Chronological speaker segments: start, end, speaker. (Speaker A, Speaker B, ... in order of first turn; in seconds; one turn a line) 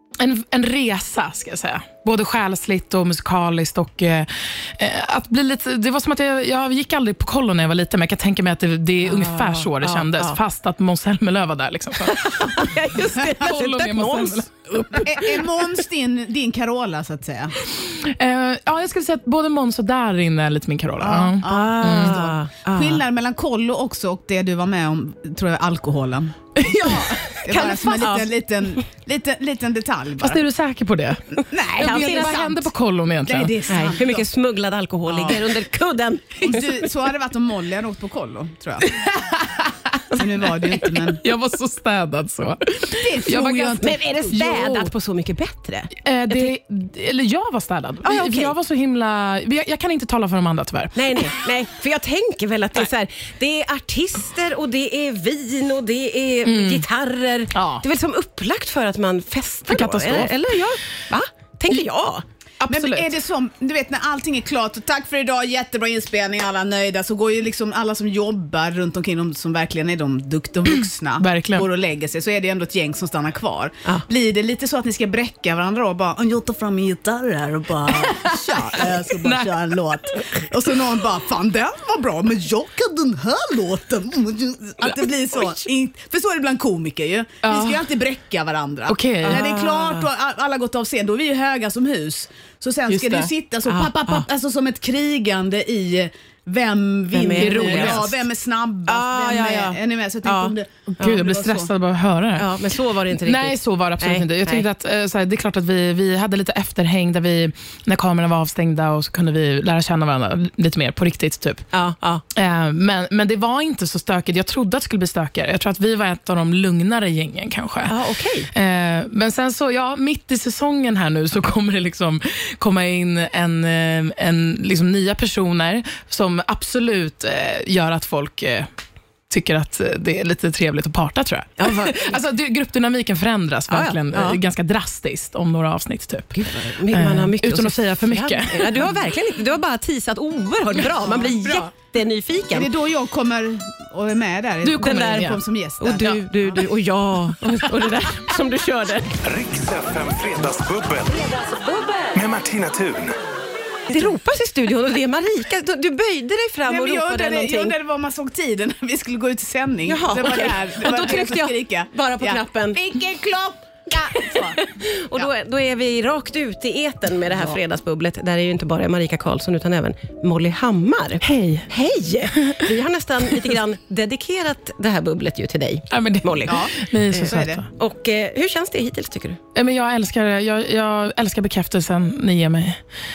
Speaker A: 0.2-15.0
Speaker B: 9.0-10.4
Speaker B: 12.0-15.4
Speaker C: 15.0-17.5
Speaker A: 17.6-22.1
Speaker C: 21.0-30.4
Speaker B: 21.4-23.0
Speaker A: 26.6-27.4
Speaker B: 27.5-28.8
Speaker A: 30.2-33.5
Speaker C: 31.5-32.7
Speaker B: 31.8-32.4
Speaker C: 33.2-34.3
Speaker B: 33.7-36.9
Speaker C: 35.1-35.4
Speaker C: 36.4-39.0
Speaker A: 38.9-40.2
Speaker C: 40.1-41.2
Speaker A: 40.7-44.9
Speaker C: 42.9-44.4
Speaker B: 43.8-46.5
Speaker A: 46.0-51.3
Speaker B: 48.0-48.5
Speaker B: 51.0-62.2
Speaker A: 56.4-56.8
Speaker A: 57.5-57.8
Speaker A: 59.7-60.4
Speaker A: 62.6-63.1
Speaker C: 62.7-101.7
Speaker A: 71.2-71.7
Speaker A: 77.9-80.1
Speaker A: 87.4-87.9
Speaker A: 88.9-89.4
Speaker B: 89.2-90.1
Speaker A: 92.9-93.3
Speaker B: 93.7-94.2
Speaker B: 97.1-98.1
Speaker A: 97.3-98.1
Speaker B: 98.9-101.2
Speaker A: 100.9-102.5
Speaker B: 102.4-104.7
Speaker A: 103.1-111.7
Speaker B: 111.7-112.2
Speaker A: 112.3-117.9
Speaker B: 117.9-118.5
Speaker A: 118.5-128.7
Speaker A: 129.3-138.9
Speaker B: 131.6-132.1
Speaker B: 133.7-134.4
Speaker B: 136.3-142.7
Speaker C: 141.1-141.6
Speaker C: 142.5-146.6
Speaker A: 144.6-145.4
Speaker B: 144.8-149.2
Speaker D: 149.2-151.4
Speaker D: 152.1-153.2
Speaker B: 153.9-157.8
Speaker C: 156.7-164.6
Speaker B: 159.8-162.8
Speaker B: 164.2-179.4
Speaker A: 171.2-171.7
Speaker A: 172.4-172.6
Speaker A: 175.9-177.7
Speaker C: 176.4-177.6
Speaker A: 179.5-182.8